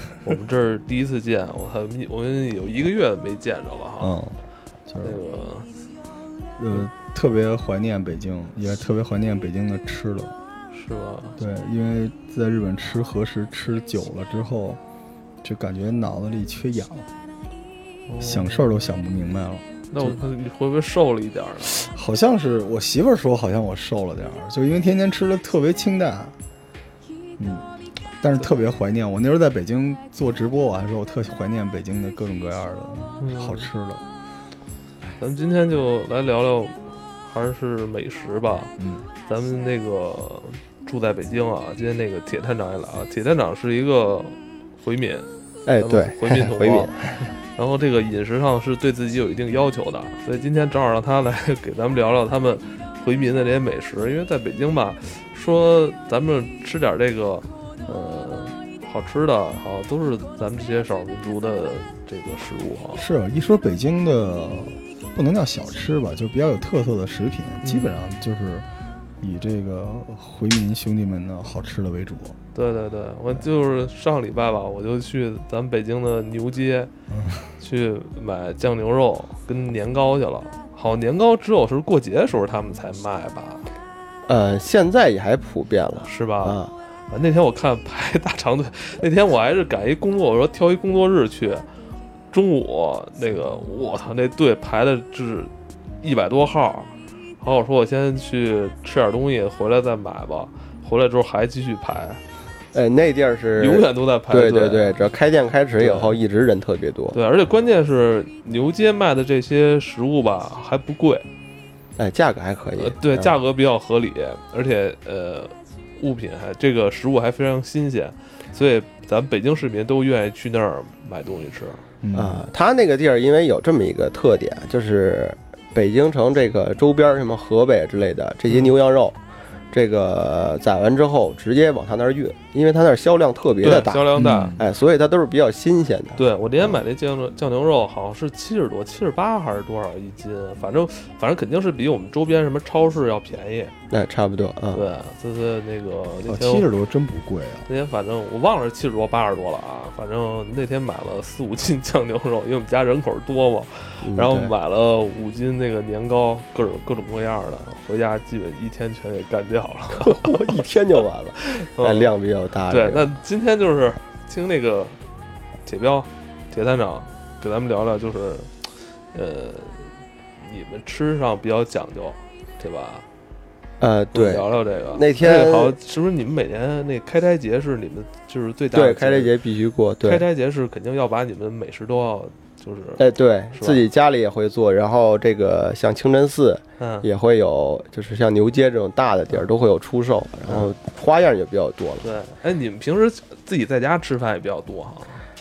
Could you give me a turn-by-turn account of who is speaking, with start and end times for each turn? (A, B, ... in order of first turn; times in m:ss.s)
0:00.2-0:04.2 A
0:04.0-0:05.2 B
0:05.0-0:05.7 A
0:06.6-0:10.3 B
0:10.7-0:11.4 A
0:11.4-0:14.8 B
0:15.4-0:17.1 B
0:18.1-0:18.6 A
0:18.2-0:20.2 B
0:19.9-0:21.9 A
0:21.7-0:26.4 B
0:27.4-0:27.7 B
0:28.2-0:34.0 B
0:33.2-0:33.7 A
0:35.2-0:38.7 A
0:38.8-0:39.0 B
0:39.3-0:45.3 A
0:45.7-0:47.2 C
0:45.8-1:03.1 A
1:03.0-1:08.7 B
1:07.6-1:08.0 A
1:09.2-1:12.4 B
1:12.6-1:16.9 A
1:17.1-1:17.5 B
1:17.6-1:23.6 A
1:24.3-1:26.7 C
1:26.1-1:31.7 A
1:32.3-1:35.5 A
1:36.0-1:42.2 A
1:42.7-1:47.2 C
1:43.6-1:45.0 A
1:45.8-1:46.2 A
1:47.1-1:51.3 A
1:52.0-1:53.4 C
1:52.8-2:01.8 A
2:02.0-2:02.5 B
2:02.1-2:09.2 C
2:08.5-2:08.7 A
2:09.7-2:16.8 C
2:13.6-2:14.6 A
2:14.1-2:14.6 B
2:16.2-2:23.7 A
2:23.9-2:24.9 C
2:24.7-2:26.7 A
2:26.2-2:27.7 B
2:27.7-2:40.6 A
2:34.0-2:34.5 C
2:40.0-2:43.1 C
2:41.4-2:42.1 A
2:42.7-2:45.0 A
2:45.7-2:48.5 A
2:49.1-2:49.9 A
2:50.4-2:53.0 A
2:53.8-2:55.8 C
2:54.1-2:59.3 A
2:58.7-3:00.2 C
3:00.0-3:03.0 A
3:03.0-3:12.1 C
3:03.5-3:03.9 A
3:06.8-3:07.1 A
3:12.0-3:15.2 A